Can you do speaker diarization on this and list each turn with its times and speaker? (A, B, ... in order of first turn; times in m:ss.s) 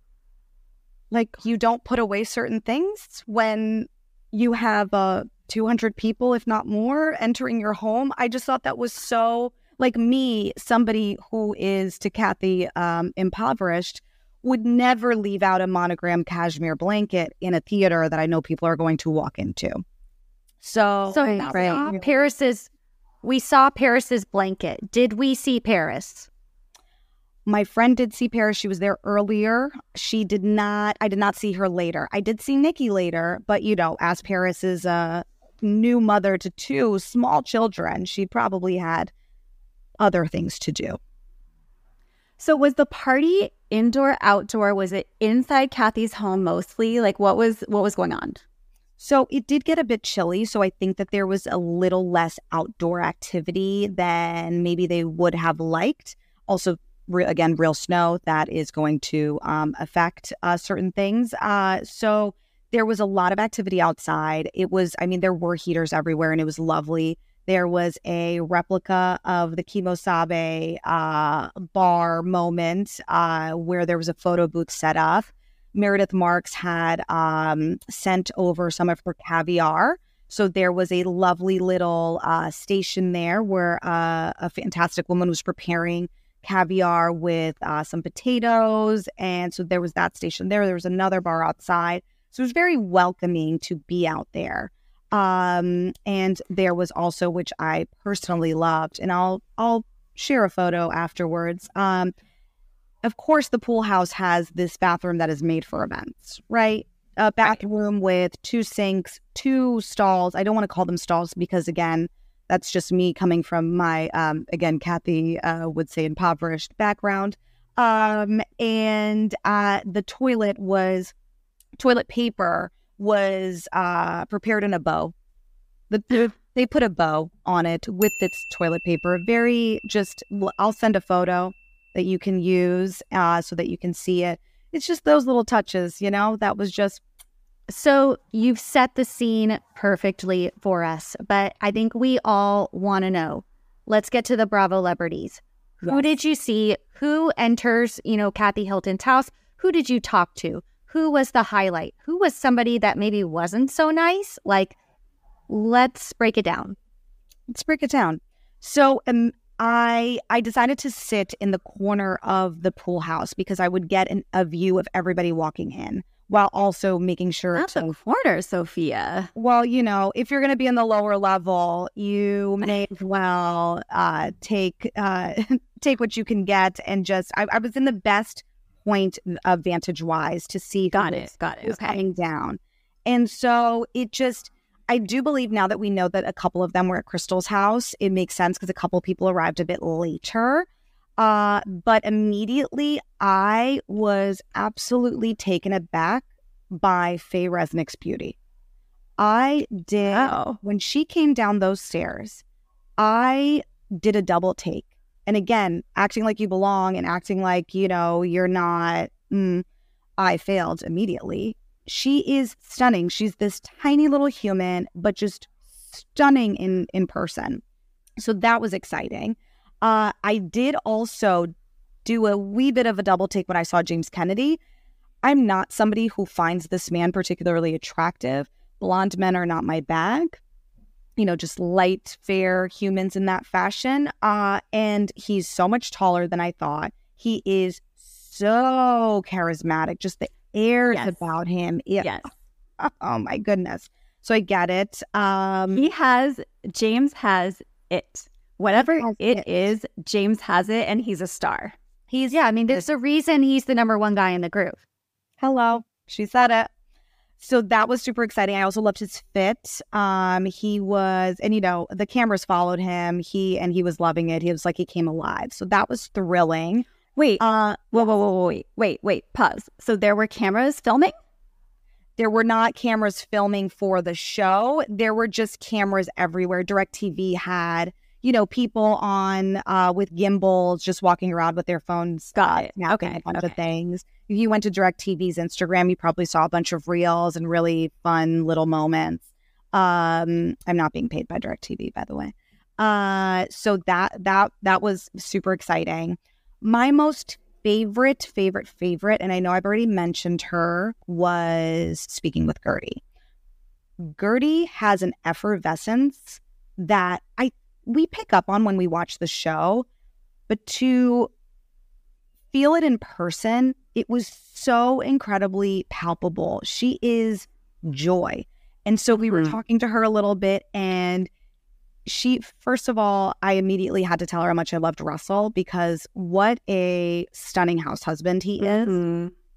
0:01.1-0:19.8 A
0:20.6-0:22.0 A
0:21.1-0:22.7 B
0:21.4-0:21.9 C
0:23.2-0:26.3 B
0:27.4-0:39.1 A
0:40.0-0:41.0 A
0:42.4-0:48.4 C
0:49.0-1:42.1 A
1:43.0-2:01.1 A
2:01.8-2:05.1 A
2:05.9-2:17.0 A
2:17.7-2:34.8 B
2:25.8-2:26.1 A
2:35.5-2:36.8 B
2:37.5-2:47.9 A
2:47.5-2:49.3 C
2:49.3-3:10.7 A
3:00.9-3:02.0 C
3:11.2-3:18.4 A
3:19.2-3:22.4 A
3:20.1-3:20.6 C
3:23.0-3:29.6 A
3:30.2-3:37.6 A
3:38.2-3:41.5 A
3:42.0-3:44.6 A
3:45.2-3:50.4 A
3:51.2-4:05.9 A
4:00.9-4:01.3 C
4:02.0-4:02.3 C
4:05.7-4:11.7 C
4:08.7-4:09.5 A
4:12.1-4:12.8 A
4:12.3-4:14.8 B
4:15.4-4:16.7 A
4:17.4-4:26.9 A
4:27.2-4:31.1 C
4:27.4-4:28.0 A
4:32.2-5:03.0 A
4:42.4-4:43.5 C
5:04.0-5:09.9 A
5:10.5-5:11.3 A
5:12.5-5:21.3 A
5:19.2-5:19.6 C
5:22.0-5:29.0 A
5:28.6-5:29.3 C